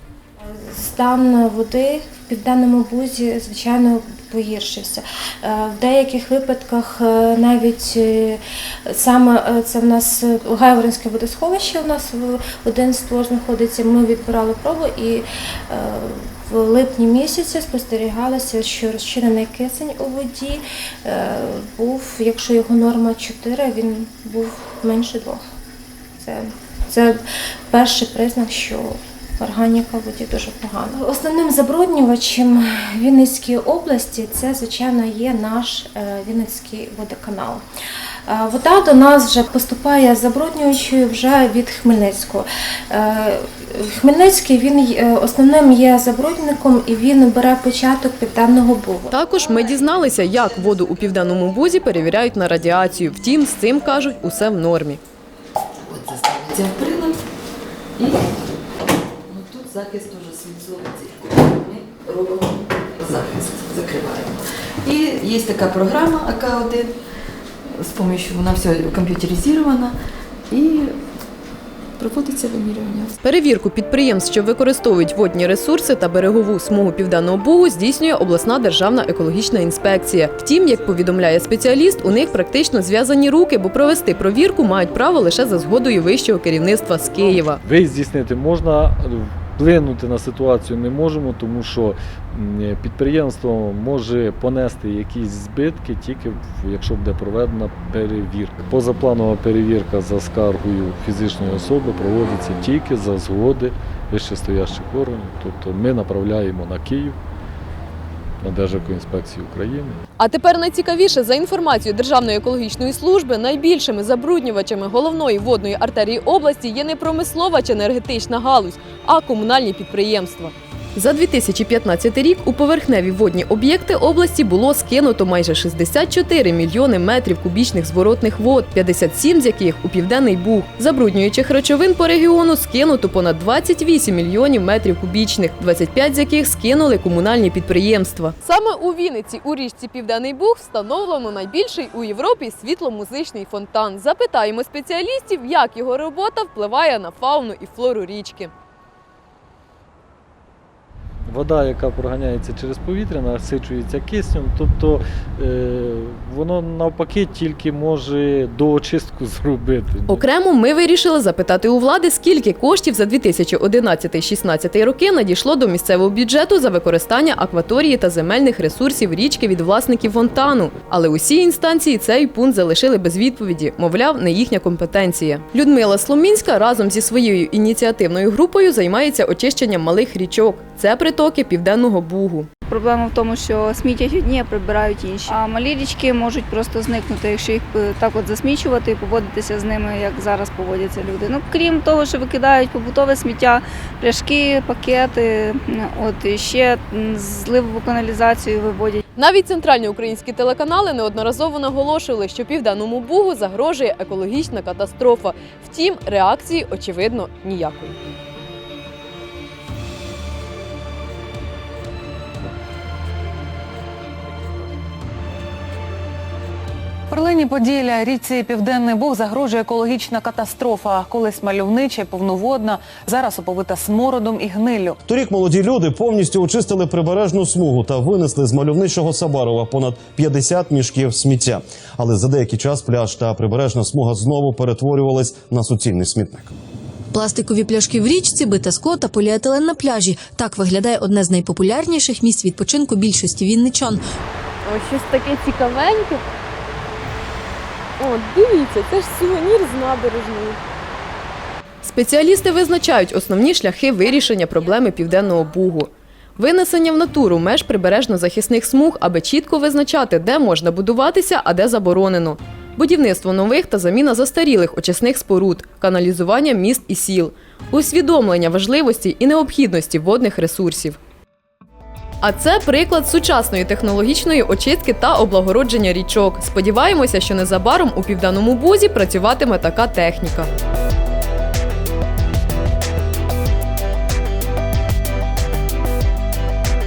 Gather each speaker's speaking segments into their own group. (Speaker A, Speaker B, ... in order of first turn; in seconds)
Speaker A: 0.6-25.4, 26.2-37.6, 38.3-49.1
Speaker B: 49.1-55.0, 73.2-87.6, 110.2-148.5, 160.1-182.5, 199.1-208.0, 244.6-246.2, 248.0-250.6, 251.8-271.0, 272.2-280.5
Speaker C: 55.9-57.1, 59.3-66.9, 67.8-69.9, 70.5-70.9, 72.0-73.0
Speaker D: 87.6-107.2, 108.4-110.0, 151.3-160.2
Speaker E: 182.7-199.0
Speaker F: 217.1-225.0
Speaker G: 225.0-236.5
Speaker H: 237.1-244.0